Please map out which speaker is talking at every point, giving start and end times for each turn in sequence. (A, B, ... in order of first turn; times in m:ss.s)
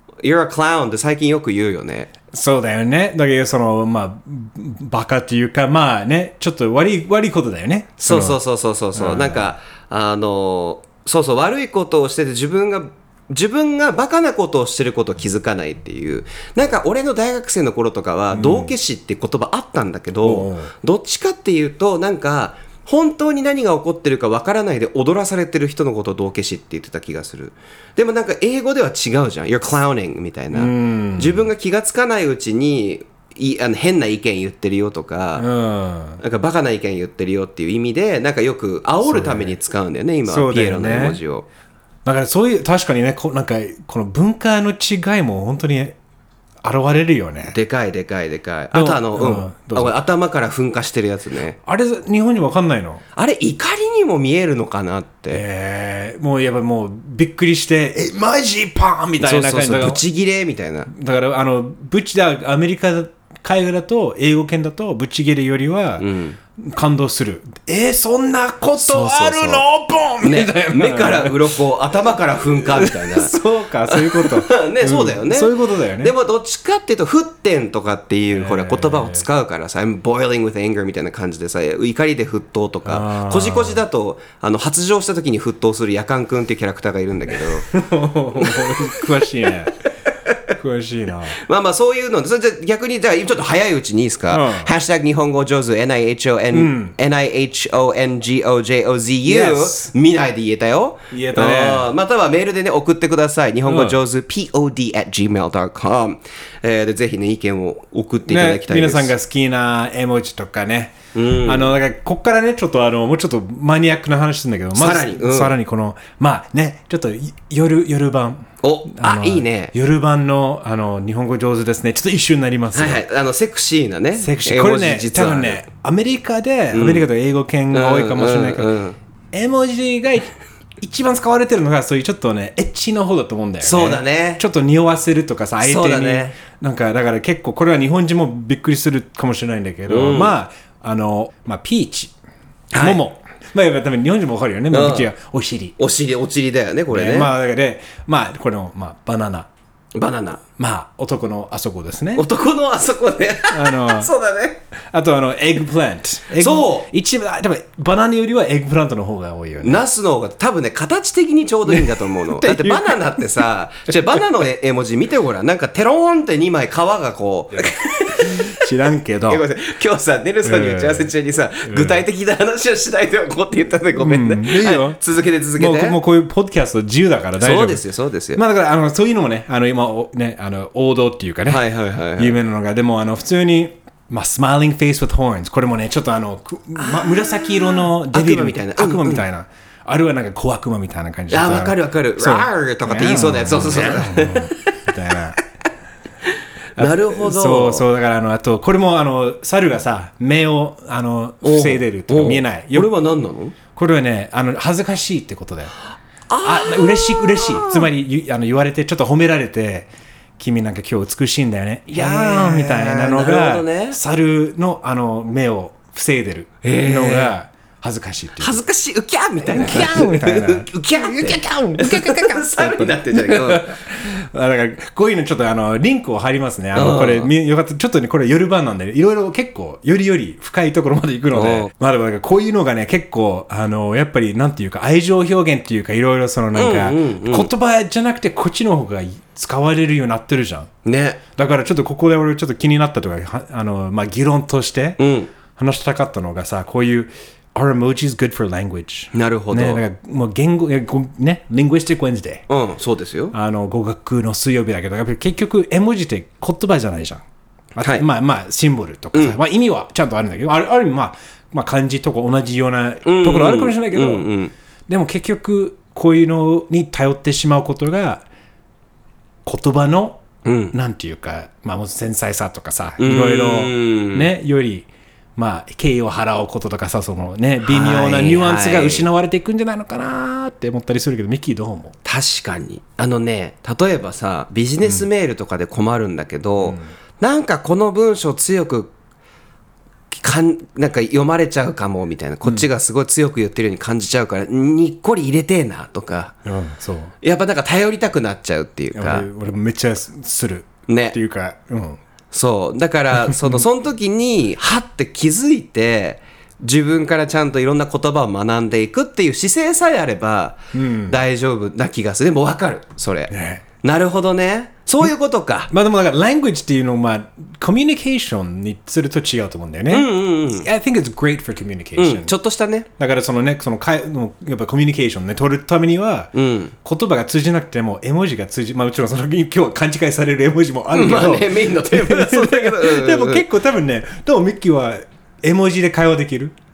0:00.2-0:02.1 A
0:02.3-0:08.4 B
0:08.0-0:35.5 A
0:09.0-0:09.5 B
0:18.3-0:18.7 B
0:20.2-0:20.7 B
0:30.5-0:31.5 B
0:35.4-0:36.2 B
0:36.2-0:41.5 A
0:39.0-0:39.6 B
0:40.3-0:41.2 B
0:42.0-0:46.0 B
0:46.6-0:47.6 B
0:47.5-0:51.6 A
0:48.7-0:50.0 B
0:51.7-0:53.0 B
0:53.2-0:55.4 A
0:55.3-1:00.0 B
0:59.2-1:00.9 A
1:00.9-1:06.1 B
1:06.0-1:06.4 A
1:06.6-1:11.5 B
1:08.8-1:09.6 A
1:10.2-1:13.3 A
1:12.7-1:16.1 B
1:13.9-1:27.7 A
1:18.3-1:19.2 B
1:22.8-1:23.8 B
1:27.7-1:29.8 B
1:28.4-1:28.8 A
1:30.6-1:31.4 B
1:31.4-1:49.1 A
1:34.3-1:34.7 B
1:36.5-1:37.0 B
1:39.2-1:39.9 B
1:41.1-1:41.9 B
1:43.7-1:44.0 B
1:48.3-2:03.0 B
1:51.1-1:51.8 A
1:54.8-1:55.6 A
1:58.6-1:59.7 A
2:02.7-2:05.6 A
2:04.2-2:08.7 B
2:06.7-2:07.1 A
2:07.7-2:09.0 A
2:09.3-2:22.1 B
2:13.6-2:14.4 A
2:15.6-2:16.4 A
2:19.9-2:20.4 A
2:22.7-2:23.0 A
2:22.7-2:25.8 B
2:24.7-2:25.1 A
2:25.8-2:27.3 A
2:26.9-2:29.5 B
2:30.0-2:30.4 A
2:30.6-2:32.3 B
2:32.2-2:34.6 A
2:33.5-2:34.1 B
2:34.9-2:39.8 B
2:36.3-2:36.9 A
2:39.6-2:48.5 A
2:41.7-2:43.4 B
2:48.6-2:49.4 B
2:49.2-2:56.0 A
2:50.4-2:51.1 B
2:51.7-2:52.0 B
2:54.0-2:55.0 B
2:55.6-2:57.8 B
2:57.4-2:58.4 A
2:58.4-3:01.6 B
3:01.5-3:02.4 A
3:02.2-3:15.4 B
3:06.8-3:09.2 A
3:11.3-3:14.5 A
3:16.8-3:17.9 A
3:16.8-3:22.9 B
3:21.4-3:23.6 A
3:23.8-3:25.7 B
3:26.3-3:27.9 A
3:26.4-3:38.6 B
3:31.9-3:34.0 A
3:36.6-3:37.4 A
3:38.4-3:43.7 A
3:39.4-4:00.7 B
3:46.8-3:47.3 A
3:51.3-3:51.7 A
3:56.5-3:57.5 A
4:00.8-4:01.2 A
4:01.4-4:05.0 B
4:05.0-4:05.3 A
4:05.6-4:12.4 B
4:09.1-4:09.8 A
4:12.5-4:13.4 A
4:13.3-4:17.2 B
4:17.8-4:24.3 B
4:17.8-4:18.1 A
4:23.0-4:24.5 A
4:24.9-4:28.2 B
4:29.4-4:30.2 B
4:30.4-4:30.8 A
4:30.7-4:41.9 B
4:33.0-4:34.3 A
4:37.6-4:39.1 A
4:42.0-4:48.9 A
4:46.6-4:46.9 B
4:50.1-4:56.3 A
4:56.4-4:57.1 B
4:57.2-4:59.3 A
4:59.0-5:02.0 B
5:00.9-5:01.2 A
5:02.3-5:15.7 A
5:03.3-5:03.6 B
5:10.7-5:11.2 B
5:13.3-5:13.6 B
5:15.7-5:22.3 B
5:19.9-5:20.7 A
5:22.0-5:22.9 A
5:23.0-5:26.3 B
5:26.3-5:26.7 A
5:26.8-5:36.6 B
5:30.9-5:33.5 A